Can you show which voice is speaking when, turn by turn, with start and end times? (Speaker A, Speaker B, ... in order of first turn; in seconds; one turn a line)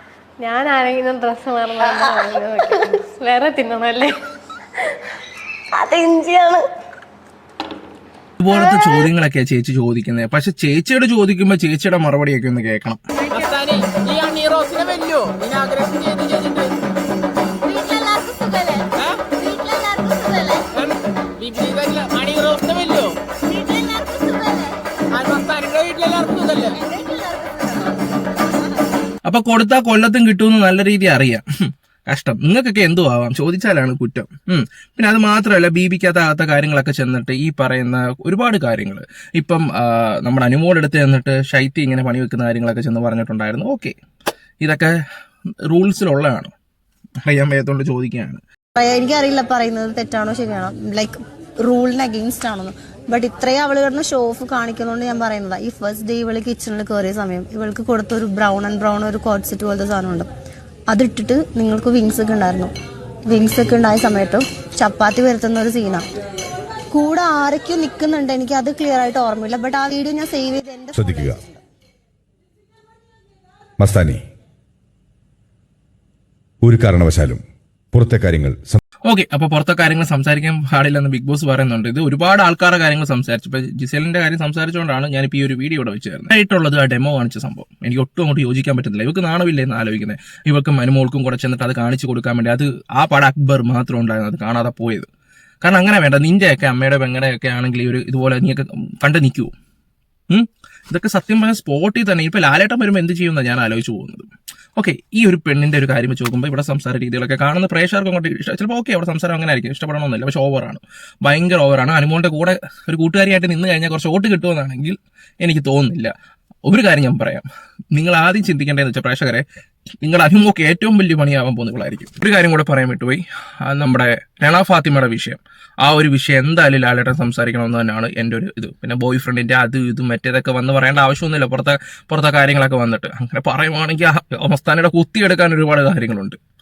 Speaker A: 0.4-4.1
Speaker B: 1.8-3.0
Speaker B: 5.7-6.7
Speaker C: 8.4-13.0
Speaker B: 8.5-9.1
Speaker D: 13.3-16.7
Speaker E: 17.6-18.9
Speaker E: 19.4-20.7
Speaker D: 20.8-23.1
Speaker E: 23.5-24.7
Speaker D: 25.1-26.8
Speaker E: 26.7-27.9
Speaker C: 29.2-43.9
Speaker C: 44.6-44.9
Speaker C: 45.7-46.5
Speaker C: 47.2-48.4
Speaker E: 48.7-60.3
Speaker E: 60.9-62.7
Speaker E: 63.3-66.0
Speaker E: 66.9-71.6
Speaker F: 70.9-71.4
Speaker F: 73.8-74.2
Speaker F: 76.6-78.8
Speaker C: 79.1-95.1
Speaker C: 95.6-99.5
Speaker C: 100.3-116.1
Speaker C: 116.7-119.4
Speaker C: 120.0-136.4